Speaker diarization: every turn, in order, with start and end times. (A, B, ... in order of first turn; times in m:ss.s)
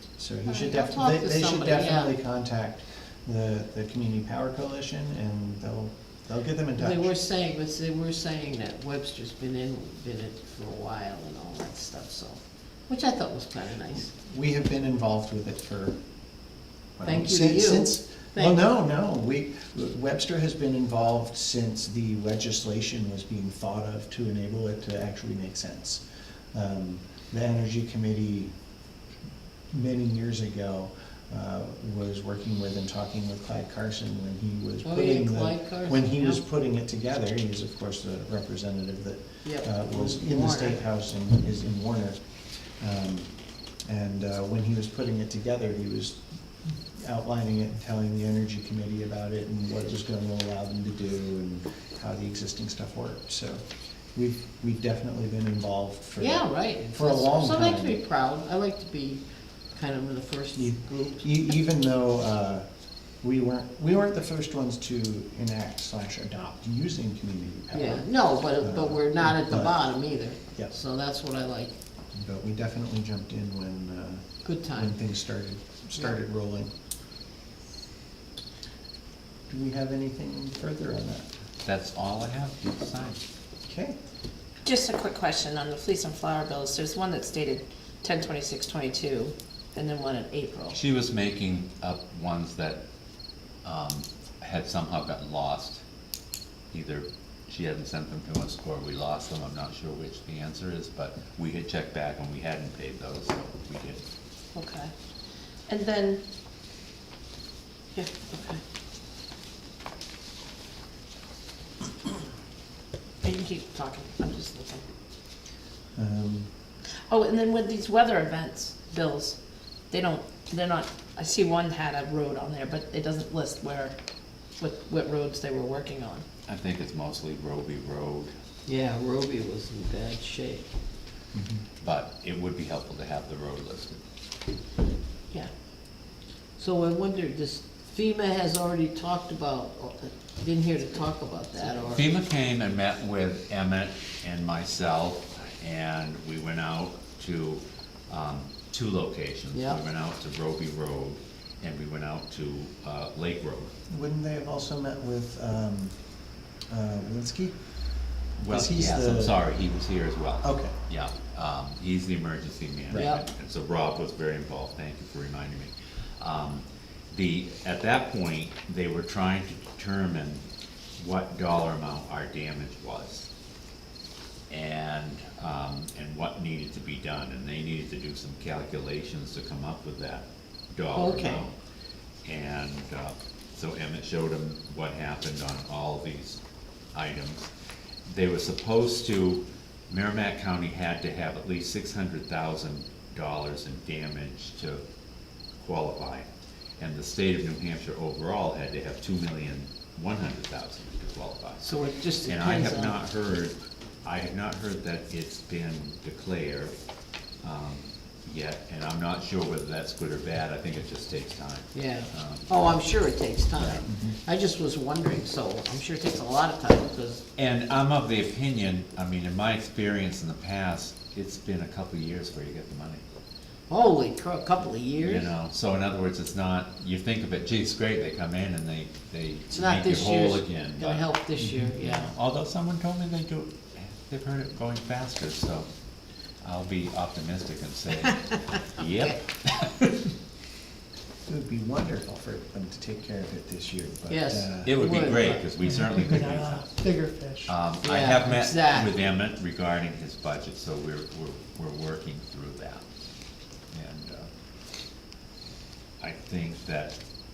0:00.2-0:07.1 A
0:00.6-0:02.2 B
0:06.8-0:14.1 B
0:14.0-0:16.0 A
0:17.0-0:26.0 A
0:17.0-0:18.6 B
0:26.5-0:28.5 A
0:29.7-0:42.2 A
0:34.8-0:36.4 B
0:39.4-0:40.8 B
0:42.8-0:43.3 A
0:43.8-0:46.2 A
0:46.9-0:58.0 A
0:56.2-1:01.3 B
1:00.5-1:02.7 A
1:03.2-1:09.9 A
1:07.7-1:11.8 B
1:10.4-1:10.7 A
1:12.1-1:16.7 A
1:14.4-1:14.9 B
1:19.5-1:21.3 A
1:21.6-1:23.2 C
1:23.6-1:24.0 A
1:24.6-1:30.8 D
1:30.7-1:32.8 C
1:33.6-1:35.8 C
1:36.7-1:44.0 C
1:44.5-1:44.9 D
1:45.7-1:46.2 D
1:47.9-1:48.6 D
1:53.2-1:54.8 D
1:55.9-1:56.5 A
1:57.1-1:59.4 D
1:59.9-2:04.0 D
2:04.6-2:06.2 D
2:06.4-2:08.3 C
2:08.6-2:10.7 B
2:11.3-2:11.6 A
2:11.8-2:14.0 C
2:16.6-2:22.0 B
2:21.9-2:33.7 C
2:29.5-2:29.8 B
2:33.9-2:36.0 A
2:36.7-2:37.6 A
2:38.4-2:39.4 A
2:38.4-2:50.4 C
2:40.4-2:40.7 A
2:42.9-2:43.2 B
2:51.0-2:53.3 C
2:54.5-3:01.5 C
3:00.9-3:01.4 B
3:02.2-3:06.4 C
3:06.9-3:07.5 C
3:08.0-3:14.8 C
3:15.6-3:26.7 C
3:21.6-3:23.0 B
3:27.4-3:32.8 C
3:31.7-3:37.2 B
3:33.6-3:34.2 A
3:37.4-3:43.0 C
3:43.7-3:45.3 B
3:45.0-3:51.1 C
3:49.5-3:52.1 B
3:51.4-3:51.7 A
3:51.7-3:55.7 C
3:56.4-4:00.0 C
4:01.3-4:04.8 A
4:04.1-4:05.5 B
4:04.6-4:06.8 C
4:07.0-4:07.3 D
4:07.4-4:12.8 C
4:07.8-4:08.9 B
4:13.7-4:14.3 C
4:16.0-4:17.0 C